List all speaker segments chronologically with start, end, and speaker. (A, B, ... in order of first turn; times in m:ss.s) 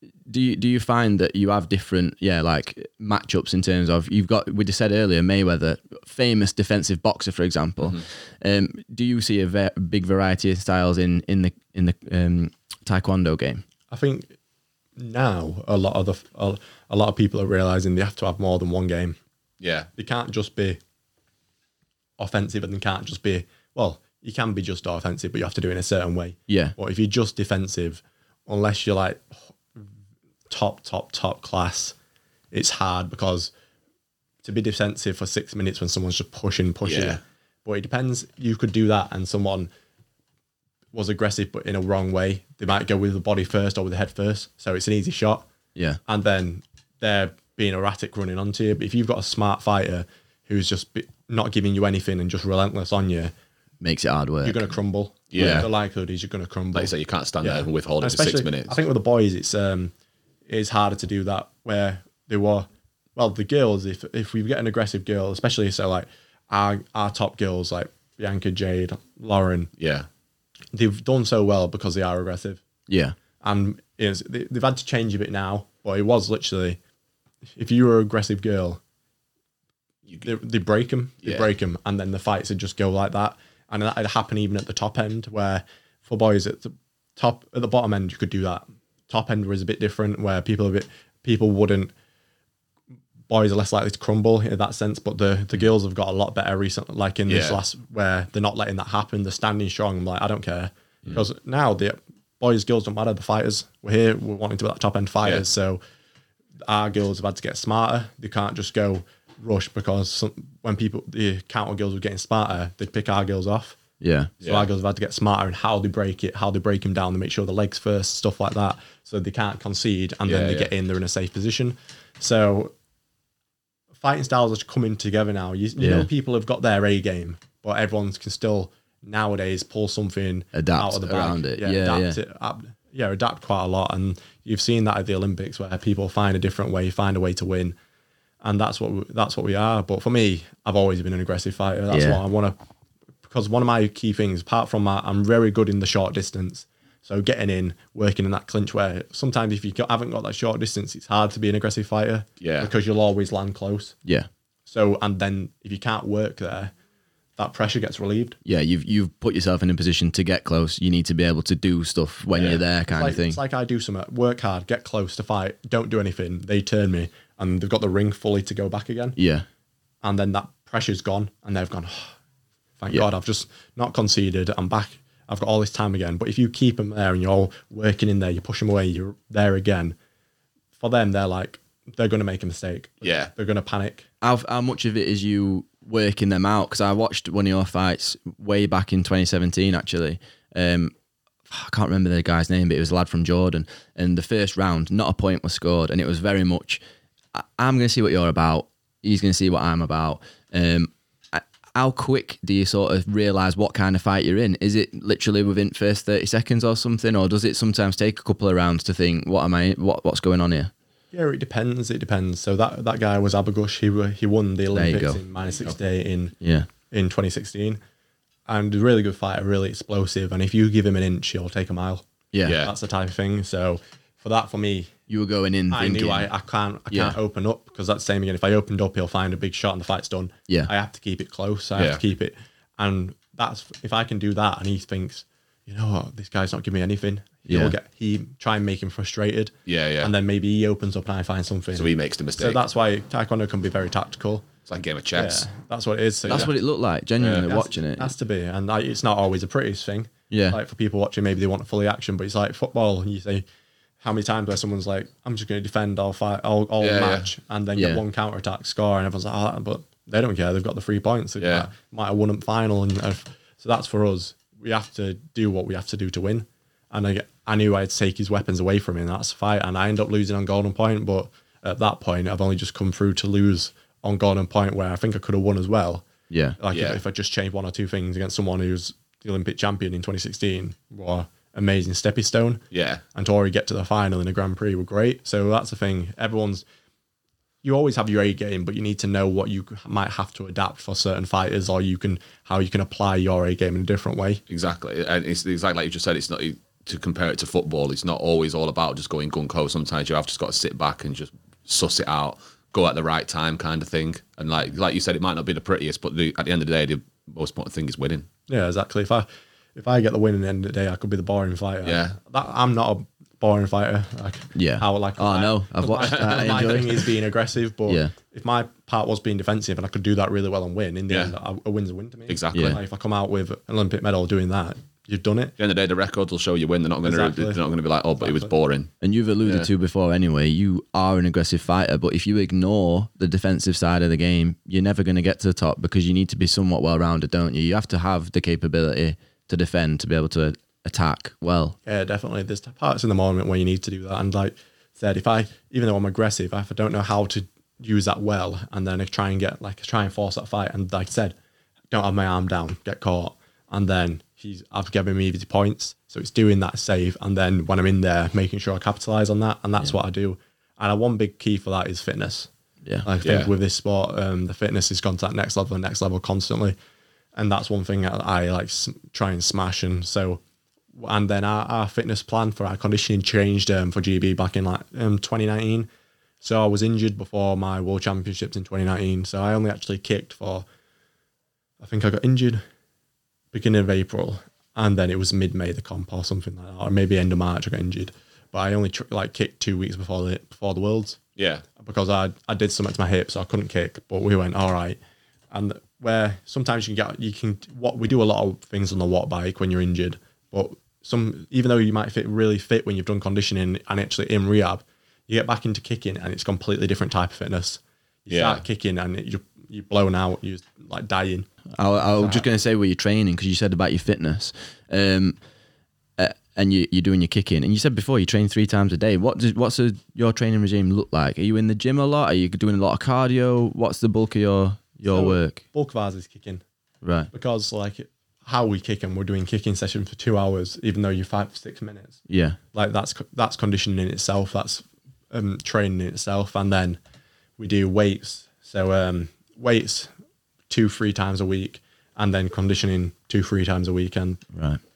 0:00.3-0:13.6 A
0:13.9-0:14.3 B
0:15.0-0:19.2 B
0:19.6-0:19.9 C
0:20.0-0:20.8 B
0:22.2-0:29.8 B
0:26.5-0:26.8 A
0:30.5-0:32.0 B
0:32.5-0:33.5 B
0:34.4-0:39.7 B
0:36.8-0:37.2 C
0:40.9-0:45.5 B
0:46.1-0:53.3 B
0:53.8-0:54.6 A
0:54.4-0:59.9 B
0:55.3-0:55.7 C
0:55.4-0:55.7 A
0:56.7-0:58.8 C
1:00.5-1:09.7 B
1:09.8-1:10.1 C
1:10.7-1:12.6 B
1:12.9-1:13.2 A
1:13.4-1:16.8 B
1:17.4-1:18.8 B
1:20.2-1:31.9 B
1:33.3-1:45.8 B
1:37.3-1:37.6 C
1:46.6-1:53.8 B
1:54.0-1:54.3 A
1:54.4-2:02.7 B
1:54.4-1:54.7 C
2:00.3-2:00.7 C
2:04.0-2:17.8 B
2:05.8-2:06.1 A
2:10.5-2:12.2 A
2:18.4-2:22.6 B
2:21.9-2:22.2 A
2:23.2-2:34.0 B
2:32.4-2:32.7 C
2:34.7-2:36.7 B
2:37.4-2:38.4 B
2:38.4-2:43.4 A
2:42.9-2:49.2 B
2:49.2-2:49.4 A
2:50.0-2:52.1 B
2:52.8-3:00.0 B
3:00.8-3:04.1 B
3:03.0-3:03.3 C
3:04.2-3:10.9 A
3:11.5-3:16.8 A
3:17.3-3:30.7 A
3:31.1-3:36.4 B
3:34.7-3:35.2 A
3:36.4-3:36.7 A
3:36.9-3:37.8 B
3:38.5-3:44.9 B
3:42.3-3:42.6 A
3:42.5-3:42.7 C
3:45.1-3:46.3 A
3:45.7-4:04.5 B
3:46.9-3:47.2 A
3:51.8-3:52.0 C
3:57.5-3:57.8 A
3:59.7-4:00.1 C
4:01.7-4:02.6 C
4:04.7-4:05.5 C
4:05.1-4:06.5 B
4:06.3-4:06.5 C
4:06.3-4:08.1 A
4:07.4-4:13.4 B
4:10.3-4:10.6 A
4:14.0-4:36.1 B
4:16.8-4:17.3 C
4:17.8-4:18.0 A
4:21.4-4:21.7 C
4:36.3-4:36.6 A
4:36.6-4:42.6 B
4:36.7-4:37.0 C
4:42.7-4:43.0 C
4:43.1-4:46.6 B
4:47.6-4:54.4 B
4:54.5-5:08.3 C
5:08.5-5:25.5 B
5:11.8-5:12.2 C
5:14.6-5:17.1 A
5:16.0-5:16.5 C
5:17.9-5:18.1 A
5:22.3-5:22.8 C
5:22.5-5:22.8 A
5:25.6-5:28.9 C
5:27.0-5:27.6 B
5:28.2-5:28.5 B
5:29.0-5:41.8 A
5:41.8-5:51.4 B
5:51.9-6:02.5 B
6:03.0-6:06.8 B
6:03.2-6:03.5 C
6:07.4-6:10.4 B
6:10.9-6:15.9 B
6:16.4-6:20.6 B
6:21.8-6:22.6 B
6:23.5-6:31.2 B
6:31.4-6:31.6 C
6:31.8-6:35.0 B
6:35.5-6:51.5 B
6:48.3-6:48.6 C
6:51.8-6:55.4 A
6:52.2-6:52.5 B
6:56.2-7:05.6 A
7:05.1-7:06.6 B
7:07.0-7:07.3 A
7:07.3-7:12.2 B
7:12.3-7:12.6 A
7:12.7-7:17.0 B
7:17.6-7:20.1 B
7:20.7-7:24.4 B
7:24.5-7:24.8 A